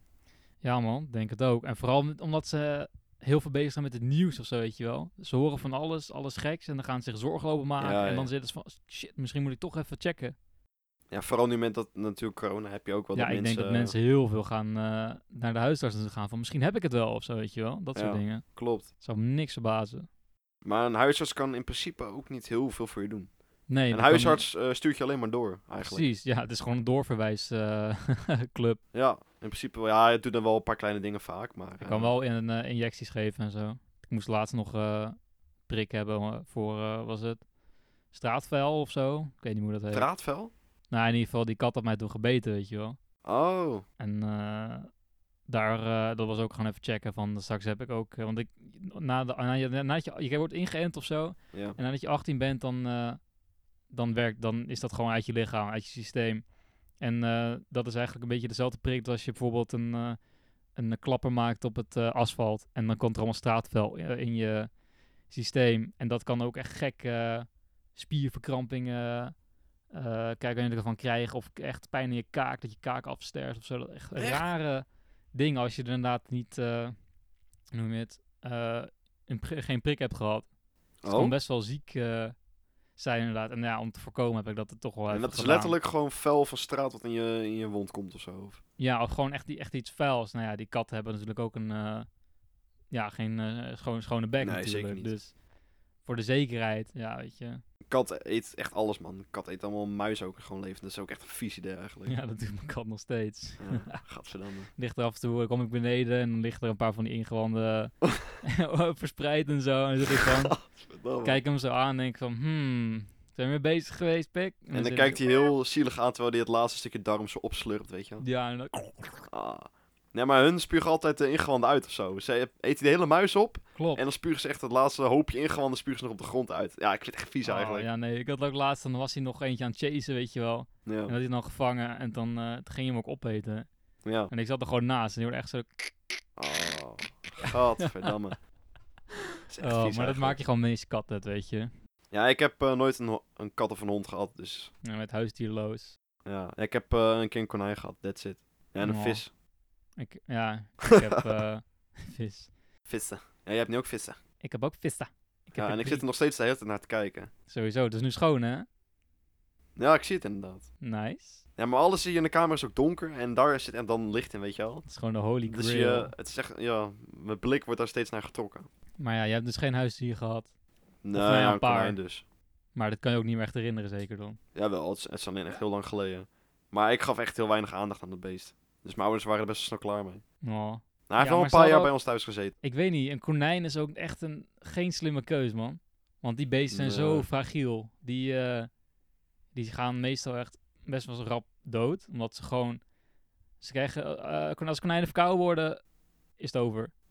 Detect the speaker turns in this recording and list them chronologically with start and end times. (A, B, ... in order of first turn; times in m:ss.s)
0:00.6-0:10.3 A
0:07.8-0:08.3 B
0:11.1-0:13.9 B
0:13.1-0:18.4 A
0:17.9-0:18.8 B
0:19.0-0:20.1 A
0:20.6-0:23.3 B
0:23.7-0:24.4 A
0:23.9-0:26.0 B
0:25.8-0:28.8 A
0:28.9-0:32.1 B
0:31.8-0:35.2 A
0:35.7-0:37.4 A
0:38.1-0:40.1 A
0:39.9-0:40.5 B
0:40.9-0:43.0 A
0:43.2-0:43.8 B
0:44.0-0:44.9 A
0:45.5-0:53.2 A
0:51.5-0:51.8 B
0:53.9-0:56.4 A
0:57.0-1:00.2 A
1:00.7-1:04.7 A
1:05.3-1:09.3 A
1:09.9-1:16.9 A
1:14.2-1:14.4 B
1:17.7-1:20.5 A
1:21.0-1:21.3 B
1:21.0-1:22.3 A
1:23.0-1:25.8 A
1:25.1-1:28.6 B
1:28.8-1:32.1 A
1:32.9-1:35.3 A
1:34.4-1:35.1 B
1:36.0-1:37.6 A
1:37.9-1:42.1 B
1:42.0-1:44.0 A
1:43.6-1:44.7 B
1:44.8-1:50.6 A
1:50.1-1:51.4 B
1:51.2-1:55.2 A
1:54.7-1:58.2 B
1:58.2-1:59.3 A
1:59.3-2:07.9 B
2:03.8-2:04.0 A
2:07.4-2:13.7 A
2:10.8-2:11.1 B
2:14.0-2:14.3 B
2:14.3-2:15.9 A
2:16.4-2:18.4 B
2:17.4-2:18.1 A
2:19.1-2:21.7 A
2:19.5-2:20.4 B
2:22.1-2:24.7 B
2:24.8-2:26.0 A
2:26.2-2:29.3 B
2:28.8-2:29.2 A
2:30.0-2:32.5 A
2:30.9-2:31.2 B
2:32.9-2:34.2 B
2:34.4-2:36.0 A
2:35.6-2:37.3 B
2:37.5-2:38.7 A
2:39.8-2:40.7 B
2:40.8-2:41.4 A
2:41.6-2:44.8 B
2:44.8-2:46.1 A
2:45.5-2:48.7 B
2:49.0-2:50.5 A
2:51.0-2:52.2 B
2:51.1-2:52.0 A
2:52.7-2:54.4 A
2:54.5-3:00.2 B
3:00.4-3:01.9 A
3:01.1-3:02.5 B
3:02.6-3:08.7 A
3:06.7-3:07.3 B
3:09.5-3:12.8 A
3:13.6-3:15.8 A
3:16.4-3:16.9 A